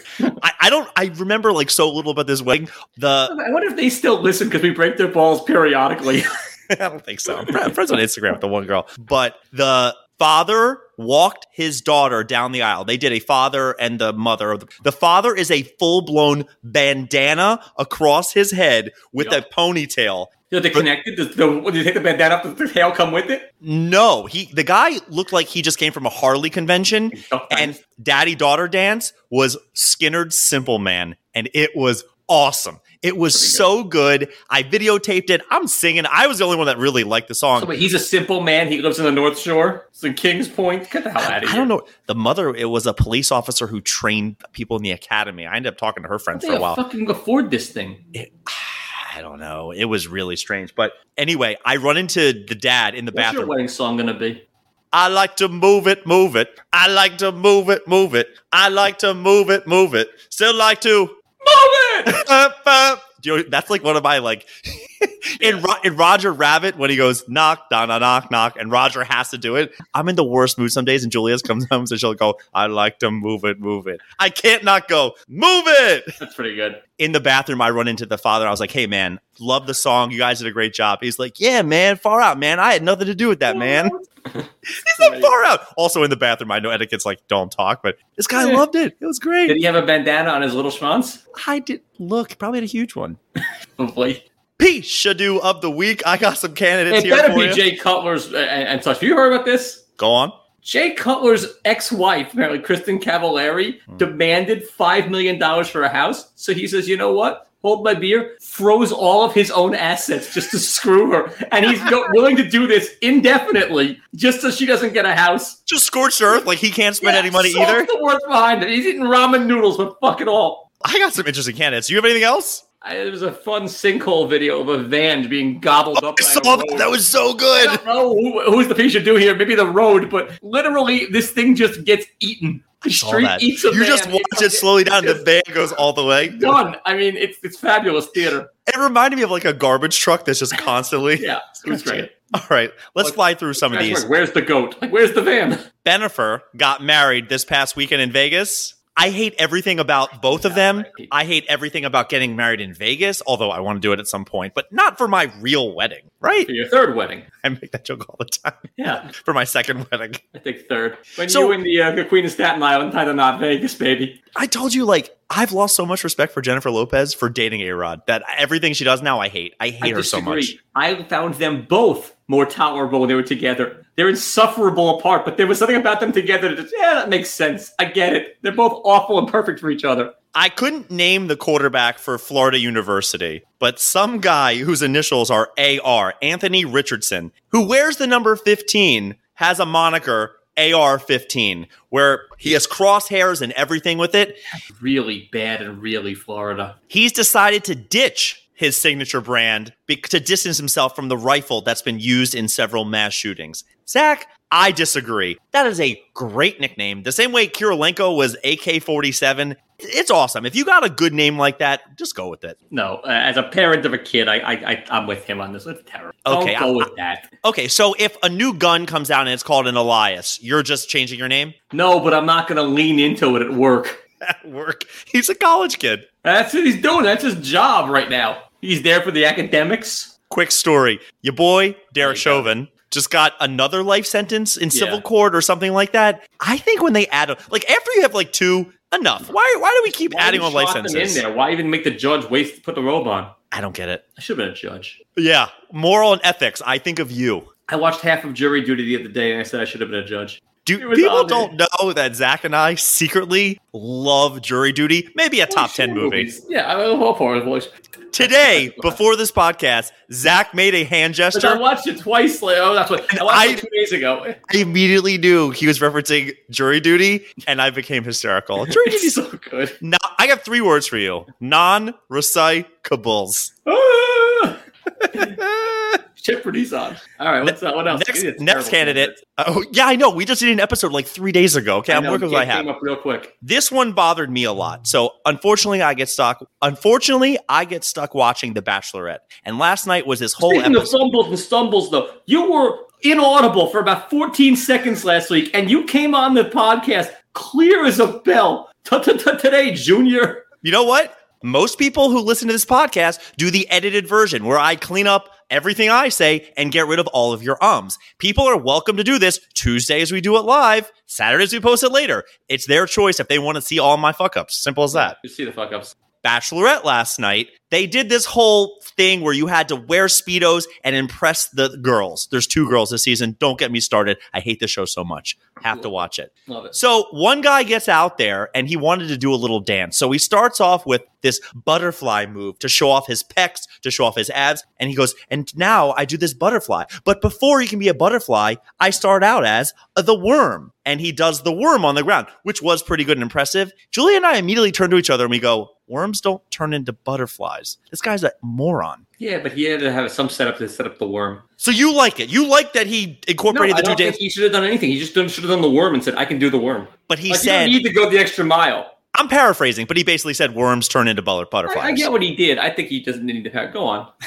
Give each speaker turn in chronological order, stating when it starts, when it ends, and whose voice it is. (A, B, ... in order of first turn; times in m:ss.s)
0:00.4-0:03.3 A
0:03.3-0:06.3 B
0:06.7-0:20.9 A
0:07.3-0:07.7 B
0:20.5-0:23.4 B
0:23.6-0:37.7 A
0:27.1-0:27.8 B
0:33.3-0:33.7 B
0:37.6-0:41.7 B
0:41.2-0:46.8 A
0:46.3-0:48.0 B
0:48.1-0:53.5 A
0:53.1-0:54.4 B
0:54.9-1:01.2 A
1:01.4-1:02.2 B
1:02.1-1:16.1 A
1:05.4-1:05.6 B
1:16.2-1:16.8 B
1:17.0-1:24.0 A
1:23.5-1:25.3 B
1:24.7-1:29.6 A
1:28.4-1:28.6 B
1:29.5-1:31.2 B
1:31.3-1:33.2 A
1:33.8-1:34.2 B
1:34.6-1:37.6 A
1:36.9-1:39.8 B
1:40.0-1:40.4 A
1:40.6-1:55.6 B
1:55.7-1:57.9 A
1:57.0-2:00.6 B
2:00.8-2:02.6 A
2:02.8-2:07.0 B
2:06.0-2:07.8 A
2:07.5-2:15.3 B
2:12.9-2:16.6 A
2:16.3-2:18.5 B
2:18.7-2:24.1 A
2:21.2-2:22.1 B
2:23.0-2:25.7 B
2:25.8-2:36.5 A
2:30.4-2:31.1 B
2:36.5-2:37.3 B
2:37.4-2:40.2 A
2:38.8-2:39.1 B
2:40.3-2:44.2 B
2:41.3-2:41.6 A
2:44.3-2:50.6 A
2:49.8-3:00.1 B
3:00.3-3:14.4 A
3:14.7-3:16.8 B
3:16.9-3:32.6 A
3:32.7-3:37.3 B
3:36.3-3:36.9 A
3:37.4-3:41.6 A
3:41.7-3:44.0 B
3:44.2-3:46.1 A
3:46.2-3:50.1 B
3:50.3-4:01.2 A
3:52.0-3:52.5 B
3:54.7-3:55.0 B
4:00.1-4:03.3 B
4:03.5-4:04.0 A
4:04.2-4:05.0 B
4:05.2-4:07.5 A
4:07.7-4:11.5 B
4:10.6-4:16.3 A
4:15.5-4:18.9 B
4:18.1-4:21.6 A
4:21.3-4:24.4 B
4:23.1-4:23.6 A
4:24.5-4:29.1 A
4:28.6-4:29.8 B
4:29.8-4:33.5 A
4:33.7-4:34.6 B
4:35.0-4:36.0 A
4:35.1-4:35.4 B
4:36.2-4:39.2 B
4:37.4-4:42.7 A
4:41.9-4:43.3 B
4:43.4-4:50.9 A
4:50.4-5:00.5 B
5:00.6-5:15.2 A
5:14.9-5:16.0 B
5:16.2-5:49.0 A
5:26.5-5:26.8 B
5:49.2-5:51.4 B
5:51.6-5:54.2 A
5:53.5-5:58.9 B
5:57.1-5:57.8 A
5:59.1-6:02.1 A
6:01.7-6:04.1 B